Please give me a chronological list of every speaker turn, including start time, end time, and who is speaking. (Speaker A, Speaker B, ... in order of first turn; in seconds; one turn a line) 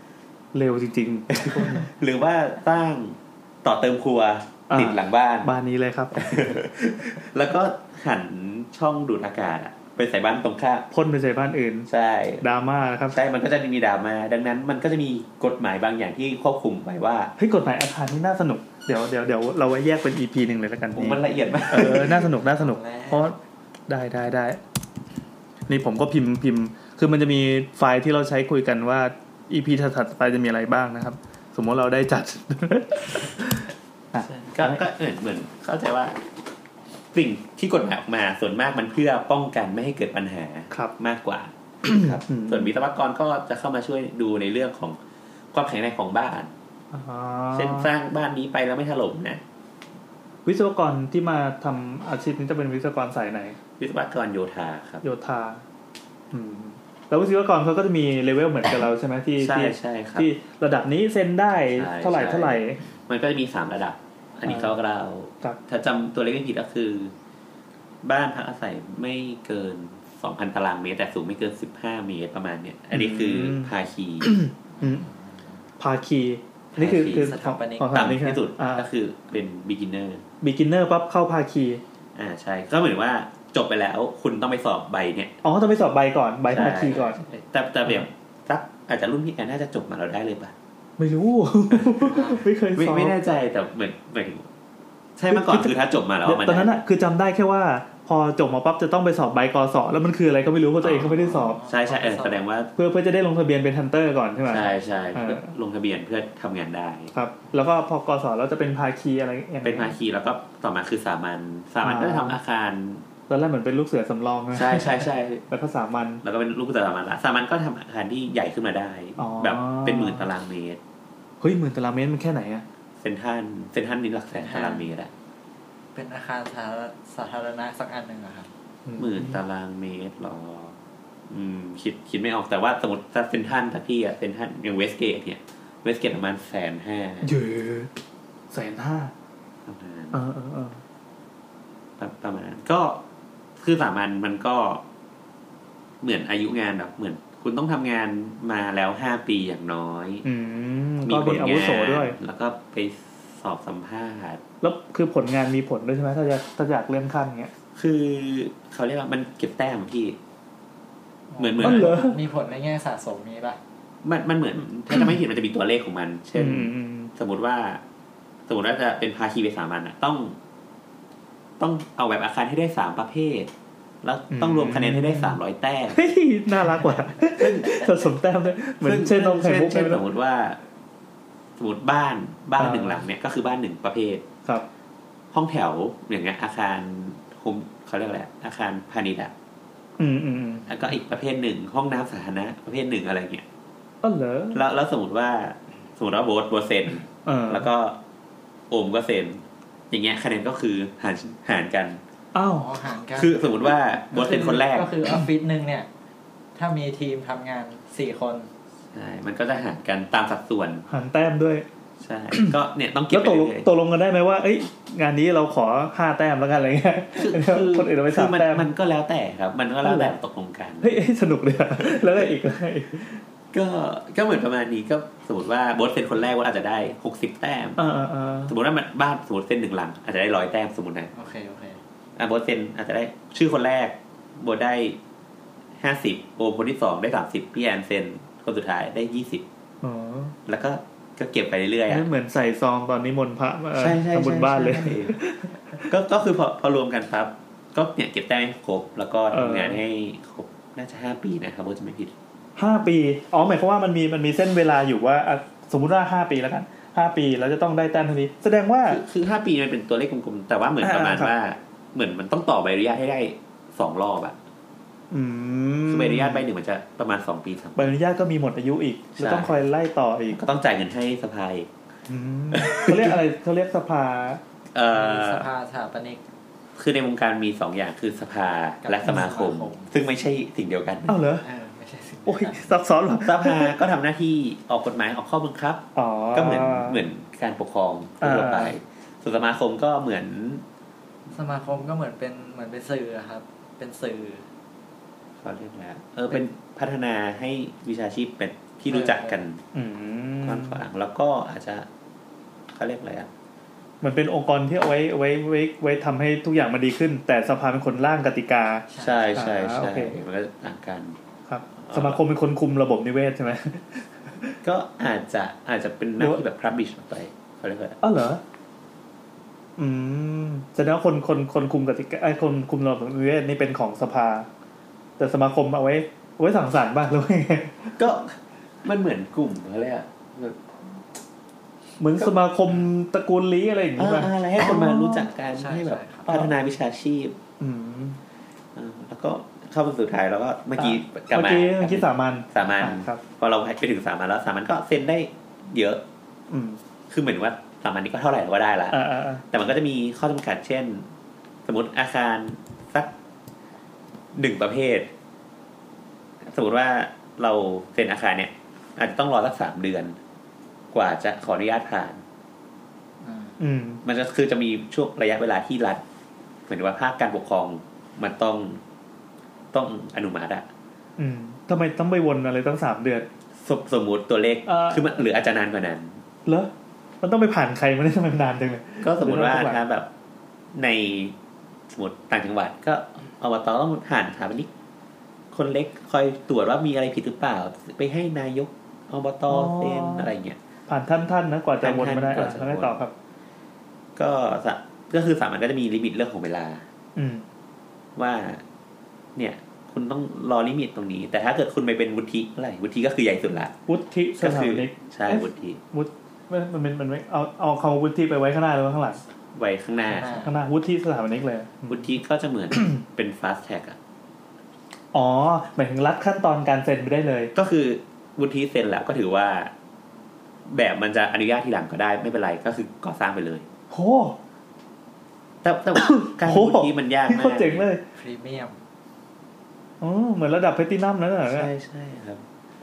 Speaker A: 0.5-1.9
Speaker B: 1.3-5.5
Speaker A: 4.7-6.3
Speaker B: 6.2-10.9
Speaker A: 10.9-11.9
Speaker B: 11.9-12.4
Speaker A: 12.4-13.2
Speaker B: 13.1-17.3
Speaker A: 17.4-24.6
Speaker B: 20.9-22.2
Speaker C: 22.4-23.3
Speaker A: 25.7-34.8
Speaker B: 34.5-36.2
Speaker B: 37.1-45.0
Speaker A: 41.9-42.7
Speaker B: 45.5-46.5
Speaker A: 46.9-47.9
Speaker B: 47.5-49.4
Speaker A: 50.5-53.6
Speaker B: 53.8-55.0
Speaker A: 55.0-55.6
Speaker A: 56.3-62.8
Speaker B: 59.4-60.3
Speaker B: 61.8-67.1
Speaker A: 64.5-64.8
Speaker B: 68.0-74.3
Speaker A: 72.9-75.1
Speaker C: 74.8-75.6
Speaker A: 75.8-78.9
Speaker B: 76.8-77.4
Speaker C: 77.1-78.0
Speaker B: 77.9-80.3
Speaker A: 80.4-81.8
Speaker B: 82.2-85.3
Speaker A: 85.4-87.2
Speaker B: 86.5-90.5
Speaker A: 91.0-93.2
Speaker B: 91.7-92.2
Speaker C: 92.1-92.5
Speaker B: 92.8-94.5
Speaker B: 95.2-96.8
Speaker A: 95.3-101.6
Speaker B: 100.8-102.7
Speaker C: 101.4-102.4
Speaker A: 102.8-105.5
Speaker B: 104.5-107.1
Speaker A: 107.1-109.9
Speaker B: 109.6-113.0
Speaker A: 111.8-112.4
Speaker A: 113.3-116.2
Speaker B: 114.5-115.5
Speaker B: 116.2-120.8
Speaker A: 119.2-120.3
Speaker A: 121.4-122.7
Speaker B: 123.0-125.1
Speaker C: 124.4-124.9
Speaker C: 126.0-128.5
Speaker A: 128.9-129.4
Speaker B: 129.0-130.8
Speaker B: 131.3-137.3
Speaker A: 137.2-137.9
Speaker A: 138.5-139.1
Speaker B: 139.7-140.2
Speaker A: 140.1-140.8
Speaker B: 142.0-143.0
Speaker B: 143.6-144.8
Speaker B: 146.0-150.2
Speaker A: 150.2-152.2
Speaker B: 151.0-154.4
Speaker A: 154.6-157.5
Speaker B: 157.8-160.2
Speaker C: 161.3-163.6
Speaker B: 161.4-161.9
Speaker A: 161.6-162.2
Speaker B: 164.0-167.8
Speaker A: 164.9-165.2
Speaker A: 166.3-167.1
Speaker B: 168.5-170.4
Speaker B: 171.6-173.5
Speaker B: 174.0-176.0
Speaker A: 174.3-175.4
Speaker A: 175.9-180.0
Speaker B: 176.8-178.0
Speaker B: 178.8-180.6
Speaker B: 181.6-184.3
Speaker A: 182.6-183.1
Speaker B: 185.3-189.3
Speaker A: 190.0-190.7
Speaker B: 190.7-193.4
Speaker A: 194.0-194.6
Speaker B: 194.5-198.0
Speaker A: 197.2-197.7
Speaker B: 198.7-202.0
Speaker A: 202.3-202.7
Speaker C: 202.5-203.5
Speaker B: 203.2-205.0
Speaker C: 204.2-205.9
Speaker A: 204.2-204.6
Speaker C: 206.6-208.5
Speaker B: 208.9-210.9
Speaker A: 210.9-211.7
Speaker B: 212.0-213.7
Speaker A: 213.1-218.7
Speaker B: 217.2-221.0
Speaker A: 219.8-220.1
Speaker A: 220.8-223.2
Speaker B: 221.8-222.3
Speaker B: 223.5-227.8
Speaker A: 227.8-228.6
Speaker B: 228.5-231.1
Speaker C: 231.1-231.8
Speaker B: 232.2-235.0
Speaker B: 235.8-239.4
Speaker A: 239.8-240.4
Speaker B: 240.5-242.1
Speaker A: 241.9-245.9
Speaker B: 243.8-245.2
Speaker B: 245.8-252.1
Speaker A: 249.3-249.8
Speaker A: 252.6-259.0
Speaker B: 258.9-264.4
Speaker A: 260.8-261.3
Speaker A: 265.1-266.5
Speaker B: 265.9-267.9
Speaker A: 267.8-270.4
Speaker B: 269.2-269.5
Speaker B: 270.3-271.7
Speaker A: 272.1-274.4
Speaker B: 272.5-273.2
Speaker B: 274.7-275.5
Speaker C: 274.9-276.2
Speaker B: 276.8-281.2
Speaker C: 278.8-279.9
Speaker A: 281.1-281.4
Speaker C: 281.4-282.7
Speaker A: 282.3-283.8
Speaker B: 283.2-290.6
Speaker A: 285.9-287.1
Speaker A: 288.2-288.8
Speaker C: 291.3-294.5
Speaker B: 295.4-299.6
Speaker C: 298.9-299.4
Speaker A: 299.7-300.8
Speaker B: 300.4-301.9
Speaker B: 302.7-303.3
Speaker A: 304.0-310.1
Speaker C: 308.9-309.3
Speaker B: 309.0-311.2
Speaker A: 311.5-314.6
Speaker B: 311.8-312.2
Speaker B: 314.6-318.0
Speaker A: 318.0-318.4
Speaker A: 319.8-324.5
Speaker A: 325.2-328.0
Speaker B: 328.0-331.0
Speaker A: 332.0-335.3
Speaker B: 334.0-337.4
Speaker C: 335.5-336.3
Speaker A: 336.3-336.5
Speaker A: 337.6-338.2
Speaker B: 338.8-346.0
Speaker A: 340.8-343.2
Speaker A: 346.5-346.8
Speaker B: 347.1-351.1
Speaker A: 348.9-349.4
Speaker B: 351.7-353.1
Speaker B: 354.4-355.1
Speaker B: 356.5-360.2
Speaker B: 360.9-362.2
Speaker C: 363.2-363.6
Speaker A: 363.6-364.0
Speaker B: 364.0-366.0
Speaker B: 366.7-368.8
Speaker B: 369.7-370.7
Speaker A: 371.2-373.3
Speaker B: 373.6-376.2
Speaker A: 374.7-375.1
Speaker A: 376.5-379.8
Speaker B: 379.0-380.1
Speaker B: 380.8-381.4
Speaker B: 381.9-384.7
Speaker B: 385.5-390.6
Speaker A: 389.5-390.3
Speaker A: 390.9-393.1
Speaker B: 391.8-393.0
Speaker B: 394.2-396.9
Speaker A: 397.2-397.4
Speaker B: 398.2-398.6
Speaker B: 399.4-403.7
Speaker A: 403.9-409.2
Speaker B: 404.4-405.8
Speaker B: 409.6-410.4
Speaker C: 410.1-410.6
Speaker A: 410.4-412.1
Speaker B: 411.9-414.0
Speaker A: 415.1-417.5
Speaker B: 417.6-419.7
Speaker B: 420.7-423.7
Speaker A: 423.9-424.4
Speaker B: 425.6-427.9
Speaker A: 425.9-428.0
Speaker C: 428.1-428.8
Speaker A: 430.0-431.7
Speaker B: 431.4-432.4